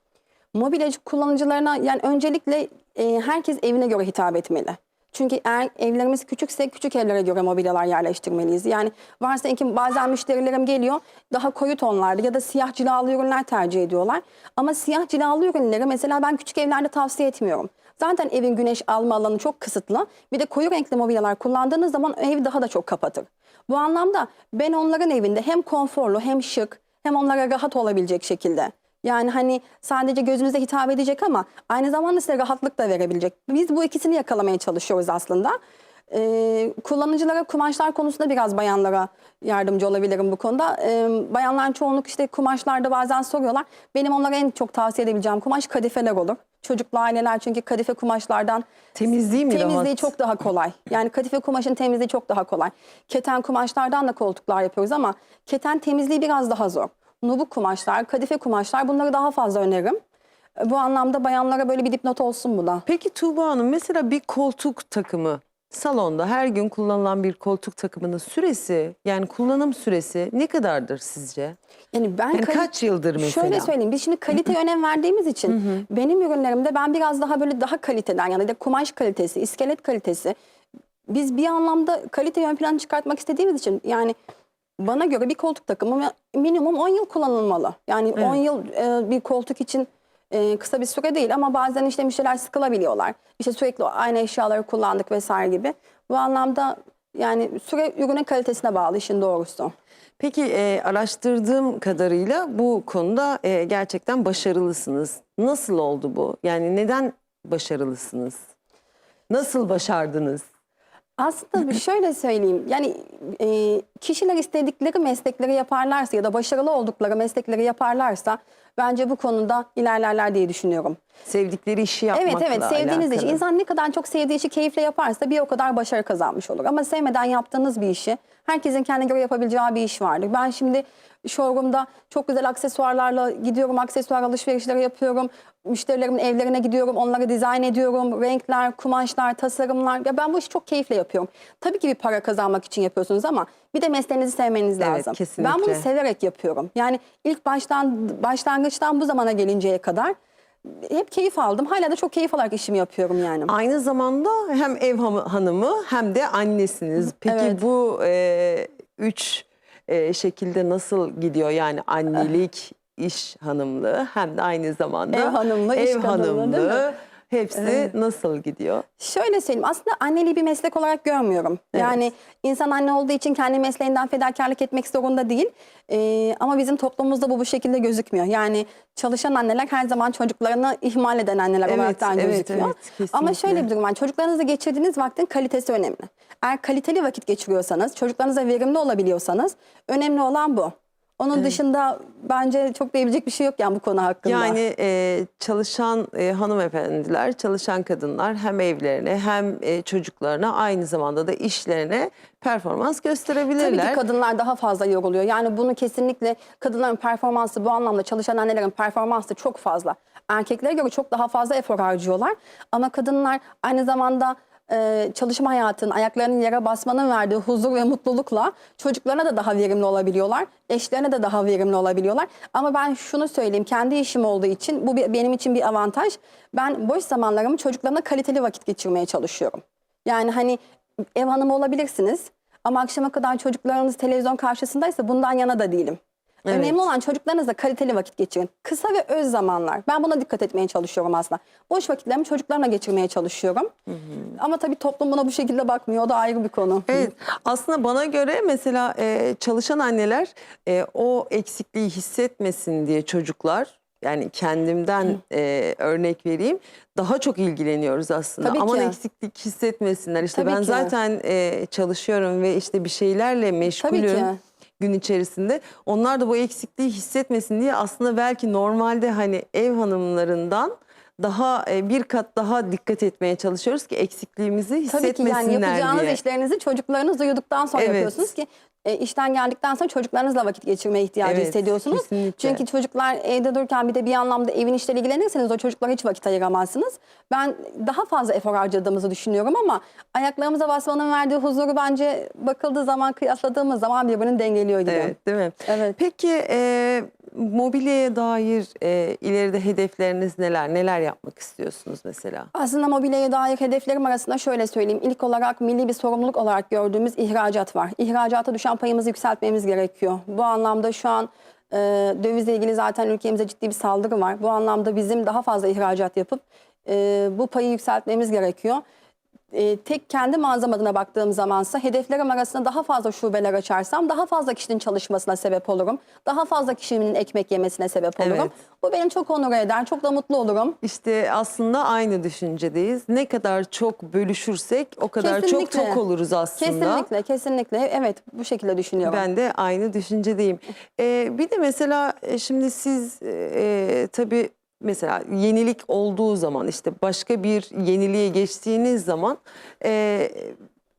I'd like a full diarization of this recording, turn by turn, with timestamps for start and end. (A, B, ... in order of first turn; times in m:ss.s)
0:00.5-0:35.6 A
0:36.1-0:48.6 A
0:48.9-0:50.1 B
0:49.4-1:00.0 A
1:00.6-1:02.8 A
1:02.9-1:11.6 B
1:11.9-1:20.3 A
1:12.3-1:13.7 B
1:21.1-1:24.1 A
1:24.8-1:39.7 A
1:40.2-1:48.4 B
1:49.3-1:50.4 B
1:51.2-2:01.0 A
2:01.2-2:03.4 B
2:02.1-2:33.5 A
2:24.8-2:25.8 B
2:33.5-2:48.8 B
2:37.2-2:37.6 A
2:45.1-2:46.8 A
2:47.5-2:47.9 A
2:49.0-3:14.6 A
3:01.6-3:03.6 B
3:14.2-3:24.0 B
3:23.6-3:50.6 A
3:51.2-4:03.7 A
3:56.4-3:56.8 B
4:03.9-4:04.2 B
4:04.3-4:07.1 A
4:06.9-4:36.2 B
4:18.4-4:19.0 A
4:20.2-4:20.9 A
4:23.7-4:24.4 A
4:34.9-4:55.1 A
4:37.7-4:38.2 B
4:41.2-4:42.6 B
4:54.9-5:02.5 B
4:55.7-4:56.0 A
5:02.5-5:18.8 A
5:19.5-5:30.8 A
5:28.2-5:28.5 B
5:30.8-5:37.1 B
5:35.2-5:36.0 A
5:36.6-5:39.2 A
5:39.0-5:50.6 B